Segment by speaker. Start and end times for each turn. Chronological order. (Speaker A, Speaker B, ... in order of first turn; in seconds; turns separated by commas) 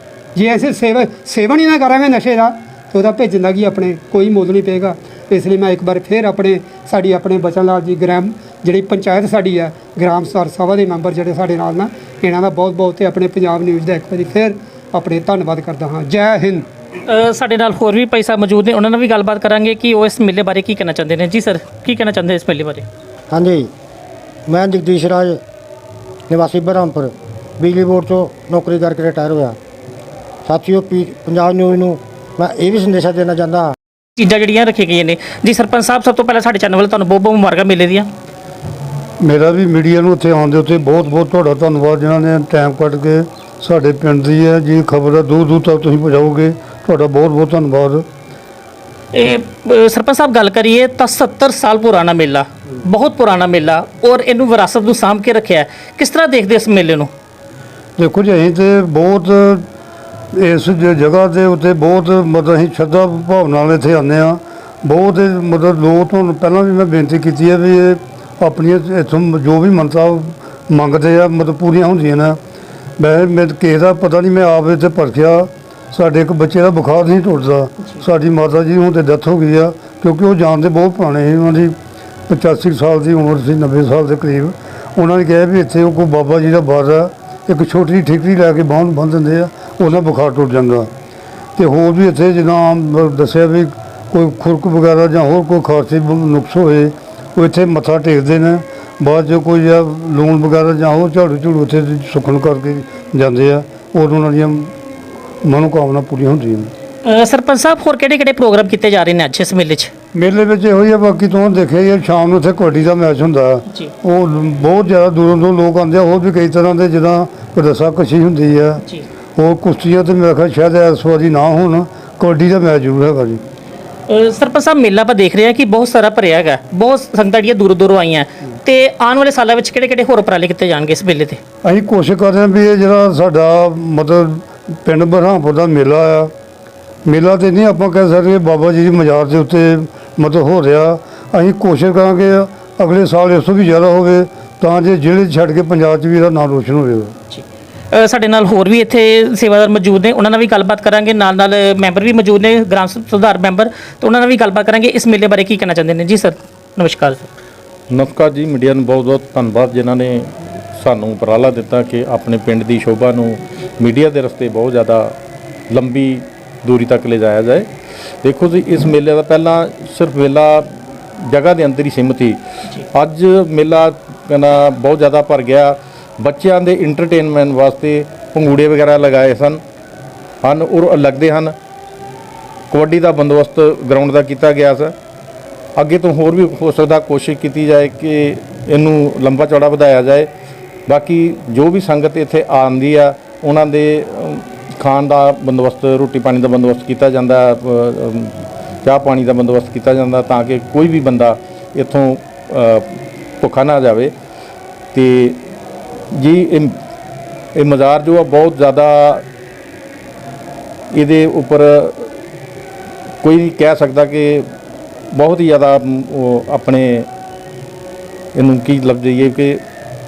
Speaker A: 0.3-16.7, Speaker B: 17.1-22.9, Speaker C: 23.3-23.7, Speaker C: 24.5-25.4, Speaker C: 26.3-29.6, Speaker C: 30.4-33.7, Speaker B: 34.2-38.1, Speaker D: 39.2-48.0, Speaker B: 49.1-57.1, Speaker D: 58.0-59.6, Speaker D: 60.3-72.4, Speaker D: 73.0-81.7, Speaker D: 82.3-90.9, Speaker D: 91.5-104.7, Speaker D: 105.4-106.7, Speaker B: 107.0-109.9, Speaker D: 110.1-118.8, Speaker D: 119.4-123.4, Speaker B: 124.1-131.4, Speaker D: 131.6-136.3, Speaker D: 137.1-147.1, Speaker B: 147.3-157.3, Speaker E: 157.9-165.1, Speaker E: 165.7-167.7, Speaker E: 168.2-172.4, Speaker E: 172.9-179.6, Speaker E: 180.4-181.5, Speaker E: 182.7-184.9, Speaker E: 185.8-190.3, Speaker E: 190.9-202.9, Speaker E: 203.4-204.1, Speaker E: 204.9-205.4, Speaker E: 206.1-206.8, Speaker E: 207.5-209.2, Speaker E: 210.9-212.1, Speaker E: 213.2-214.5, Speaker E: 215.1-217.1, Speaker E: 218.3-219.6